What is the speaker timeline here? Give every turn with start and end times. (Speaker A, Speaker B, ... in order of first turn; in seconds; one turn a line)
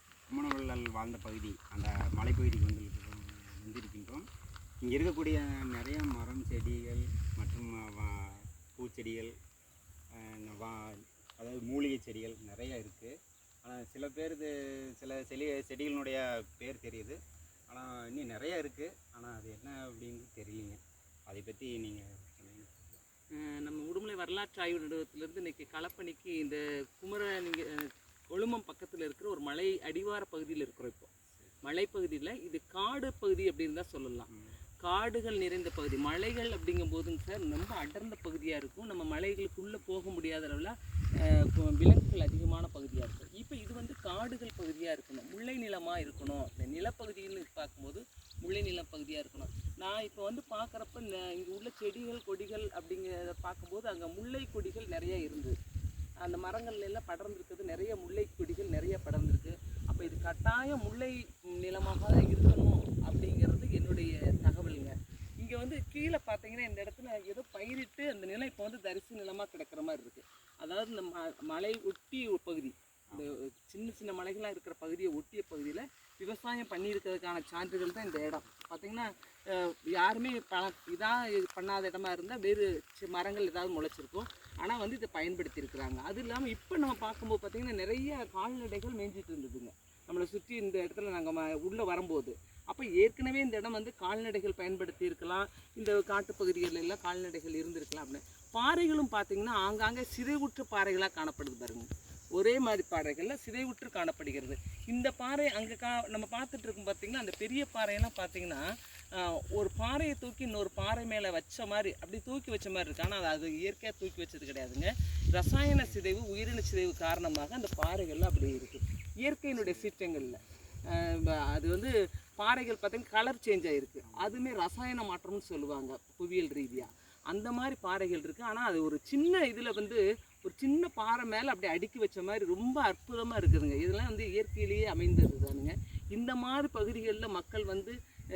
Speaker A: 0.3-4.2
Speaker A: 4.8-9.3
Speaker A: 10.2-17.2
Speaker A: 17.7-23.0
Speaker B: 23.3-31.1
Speaker B: 31.6-34.3
Speaker A: 34.3-34.6
Speaker B: 34.8-40.7
Speaker B: 41.3-55.5
Speaker B: 56.2-108.6
Speaker A: 78.1-78.5
Speaker B: 109.1-137.9
Speaker A: 115.7-116.0
Speaker A: 119.5-120.4
Speaker A: 124.0-124.5